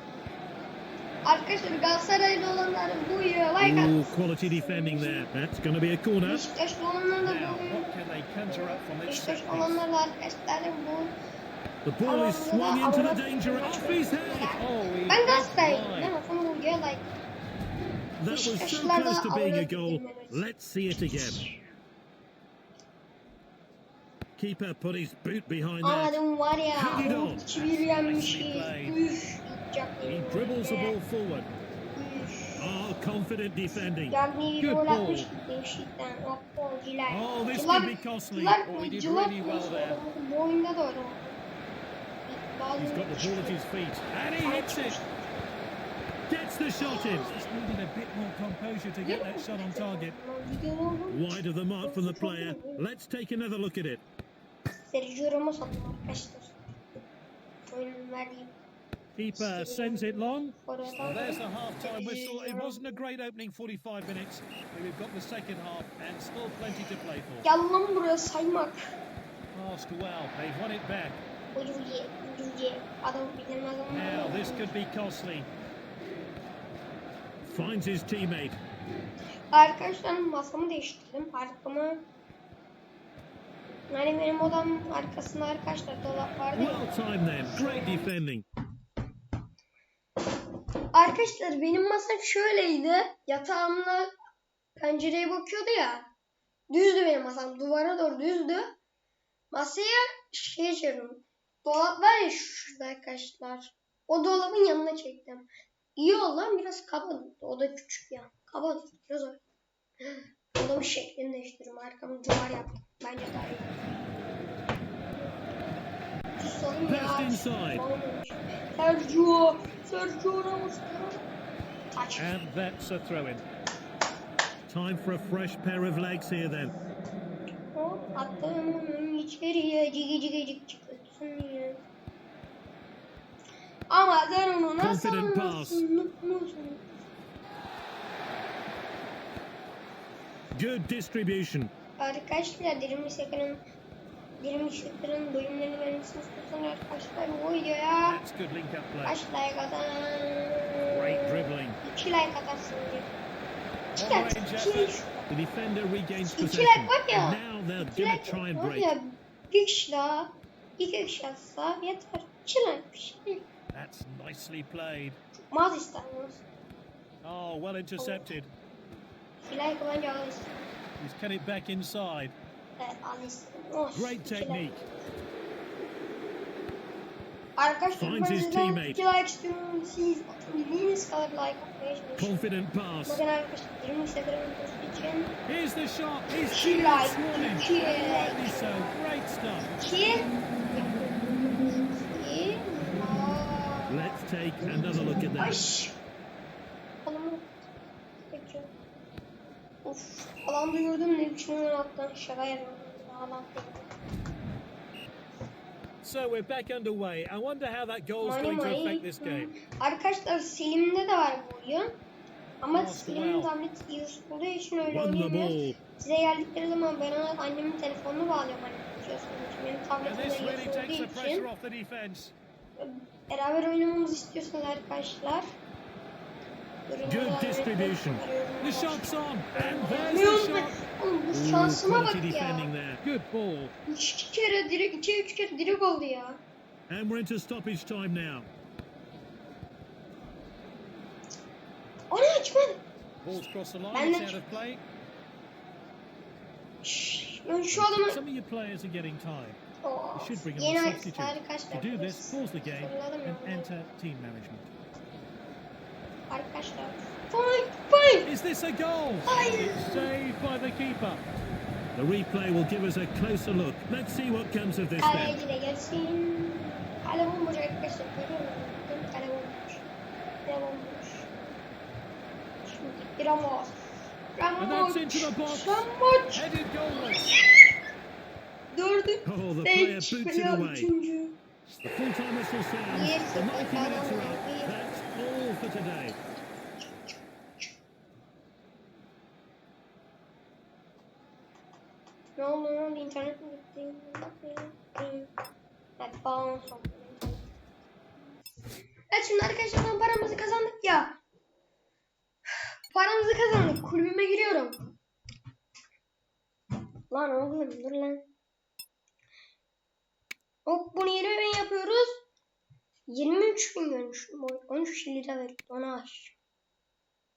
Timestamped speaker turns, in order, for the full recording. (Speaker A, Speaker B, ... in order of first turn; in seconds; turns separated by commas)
Speaker A: 1.2-5.3, Speaker B: 3.6-6.4, Speaker A: 6.2-7.9, Speaker B: 7.2-9.8, Speaker A: 8.5-11.2, Speaker B: 11.8-16.1, Speaker A: 12.0-17.1, Speaker B: 18.2-21.4, Speaker A: 18.3-20.5, Speaker A: 21.0-21.4, Speaker B: 24.4-26.2, Speaker A: 25.8-30.9, Speaker B: 26.7-29.0, Speaker B: 30.0-31.5, Speaker A: 31.9-32.7, Speaker B: 32.6-35.3, Speaker A: 34.0-41.4, Speaker B: 37.1-40.0, Speaker A: 42.2-43.6, Speaker B: 42.8-45.0, Speaker A: 44.4-45.4, Speaker B: 46.3-50.1, Speaker A: 46.8-47.3, Speaker A: 49.0-52.9, Speaker B: 51.1-54.0, Speaker A: 54.9-56.5, Speaker A: 57.7-58.5, Speaker B: 59.2-67.5, Speaker A: 59.3-63.0, Speaker A: 67.4-68.8, Speaker B: 69.5-71.2, Speaker A: 71.5-74.7, Speaker B: 73.9-75.5, Speaker B: 77.5-78.6, Speaker A: 79.5-82.1, Speaker A: 83.9-88.2, Speaker B: 86.5-88.5, Speaker A: 90.9-94.1, Speaker A: 94.8-96.1, Speaker A: 96.7-98.8, Speaker A: 99.5-109.4, Speaker A: 110.0-113.8, Speaker A: 116.4-121.2, Speaker B: 116.8-117.8, Speaker A: 121.9-122.4, Speaker B: 122.2-123.4, Speaker B: 124.7-126.7, Speaker A: 127.7-131.8, Speaker A: 133.9-136.8, Speaker B: 134.8-135.8, Speaker B: 140.5-141.7, Speaker A: 142.0-143.6, Speaker A: 144.4-148.2, Speaker B: 148.1-149.2, Speaker A: 149.0-153.2, Speaker B: 150.9-151.8, Speaker A: 153.9-155.3, Speaker B: 153.9-158.9, Speaker A: 156.2-163.4, Speaker B: 163.7-165.2, Speaker A: 165.5-166.4, Speaker B: 167.2-168.5, Speaker A: 168.0-168.3, Speaker A: 169.4-170.7, Speaker B: 171.0-172.3, Speaker A: 172.8-174.8, Speaker B: 173.9-174.8, Speaker A: 177.6-182.5, Speaker B: 177.9-179.0, Speaker B: 182.2-183.2, Speaker A: 183.1-185.4, Speaker B: 185.4-189.7, Speaker A: 186.5-189.1, Speaker A: 189.7-191.3, Speaker A: 191.9-196.0, Speaker B: 193.9-195.6, Speaker A: 197.0-197.6, Speaker A: 198.3-198.7, Speaker A: 199.8-203.9, Speaker B: 206.0-209.5, Speaker A: 208.2-211.9, Speaker A: 212.6-221.5, Speaker B: 212.7-213.5, Speaker B: 214.9-215.8, Speaker B: 220.0-222.3, Speaker A: 222.8-225.4, Speaker A: 226.9-232.7, Speaker B: 227.0-230.8, Speaker B: 231.3-233.7, Speaker A: 233.9-236.4, Speaker B: 236.9-238.5, Speaker A: 242.1-242.8, Speaker B: 243.2-244.8, Speaker A: 243.9-244.5, Speaker A: 246.8-248.2, Speaker B: 247.7-249.6, Speaker A: 249.8-253.8, Speaker B: 250.1-254.7, Speaker A: 256.3-258.3, Speaker B: 258.2-261.2, Speaker A: 259.2-260.1, Speaker B: 261.9-265.4, Speaker A: 265.0-269.9, Speaker A: 270.4-271.3, Speaker A: 272.6-276.4, Speaker B: 274.6-277.3, Speaker A: 277.1-277.7, Speaker A: 278.7-281.4, Speaker B: 279.2-280.9, Speaker B: 281.8-286.2, Speaker A: 282.9-285.0, Speaker A: 292.4-295.3, Speaker A: 296.0-297.5, Speaker A: 299.1-301.2, Speaker A: 302.9-304.9, Speaker A: 307.1-308.3, Speaker A: 310.6-312.2, Speaker A: 313.1-316.4